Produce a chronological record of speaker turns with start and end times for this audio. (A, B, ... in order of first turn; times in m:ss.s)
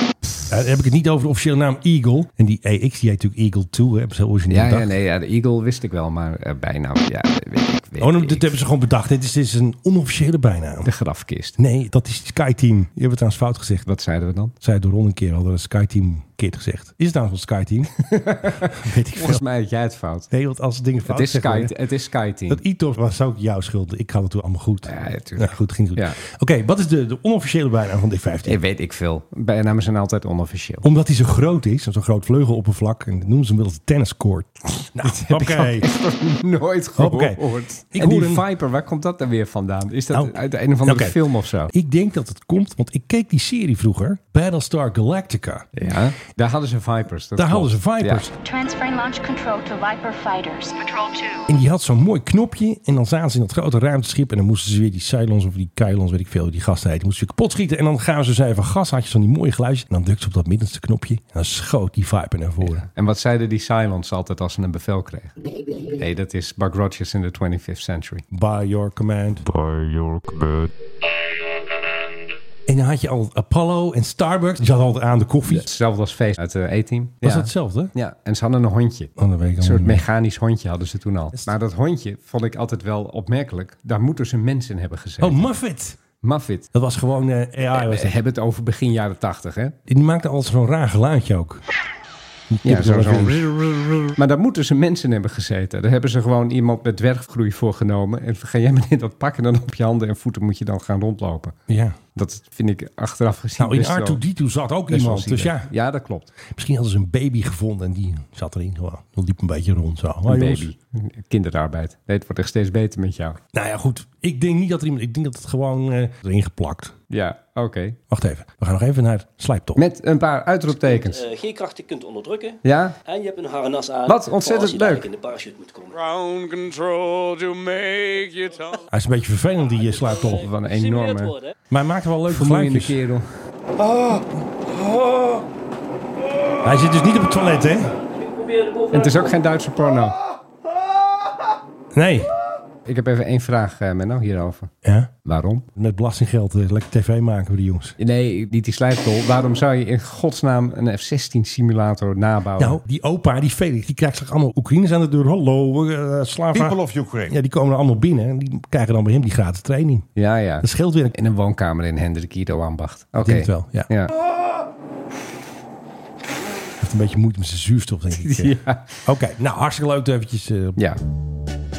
0:00.5-0:04.9 A
0:04.5-0:08.5 B
0:08.0-0:10.9 A
0:10.8-0:11.6 B
0:11.6-0:13.8 A
0:13.8-0:14.5 B
0:14.6-0:17.9 A
0:18.0-0:20.3 B
0:18.6-0:19.4 A
0:20.3-0:21.7 A
0:21.1-0:22.6 B
0:22.5-0:28.6 A
0:24.9-0:26.2 B
0:28.5-0:30.8 B
0:30.8-0:35.9 A
0:34.8-0:41.7 B
0:37.0-0:37.4 A
0:37.9-0:38.4 A
0:40.1-0:41.2 A
0:41.7-0:45.7 A
0:45.8-0:48.3 B
0:47.4-0:48.3 A
0:48.4-0:51.5 C
0:51.5-1:02.8 A
1:02.6-1:05.4 B
1:05.9-1:08.2 B
1:08.3-1:09.5 A
1:12.7-1:15.7 A
1:15.4-1:25.5 B
1:17.2-1:17.9 A
1:19.2-1:20.0 A
1:25.2-1:26.0 A
1:26.2-1:26.7 B
1:26.7-1:28.2 A
1:27.7-1:29.8 B
1:29.9-1:31.6 A
1:32.5-1:33.8 A
1:32.6-1:41.6 B
1:41.7-1:42.0 A
1:42.2-1:44.2 B
1:43.6-1:45.7 A
1:44.9-1:46.3 B
1:46.5-1:50.7 A
1:50.3-1:53.4 B
1:53.5-1:57.0 A
1:57.1-1:58.0 B
1:58.1-1:59.8 A
1:59.8-2:01.3 B
2:00.8-2:06.0 D
2:02.6-2:03.0 B
2:04.1-2:05.1 B
2:05.9-2:08.9 E
2:08.9-2:10.4 A
2:10.3-2:11.5 D
2:10.3-2:11.4 B
2:11.7-2:13.0 A
2:12.3-2:13.3 B
2:16.6-2:17.9 A
2:18.2-2:19.2 D
2:18.9-2:20.2 B
2:21.9-2:22.3 A
2:22.9-2:24.7 B
2:24.8-2:25.1 A
2:25.2-2:25.7 B
2:25.8-2:28.0 A
2:28.0-2:32.8 B
2:32.6-2:40.1 A
2:40.2-2:44.1 B
2:40.6-2:41.1 A
2:43.2-2:43.9 A
2:46.8-2:50.8 A
2:48.2-2:49.0 B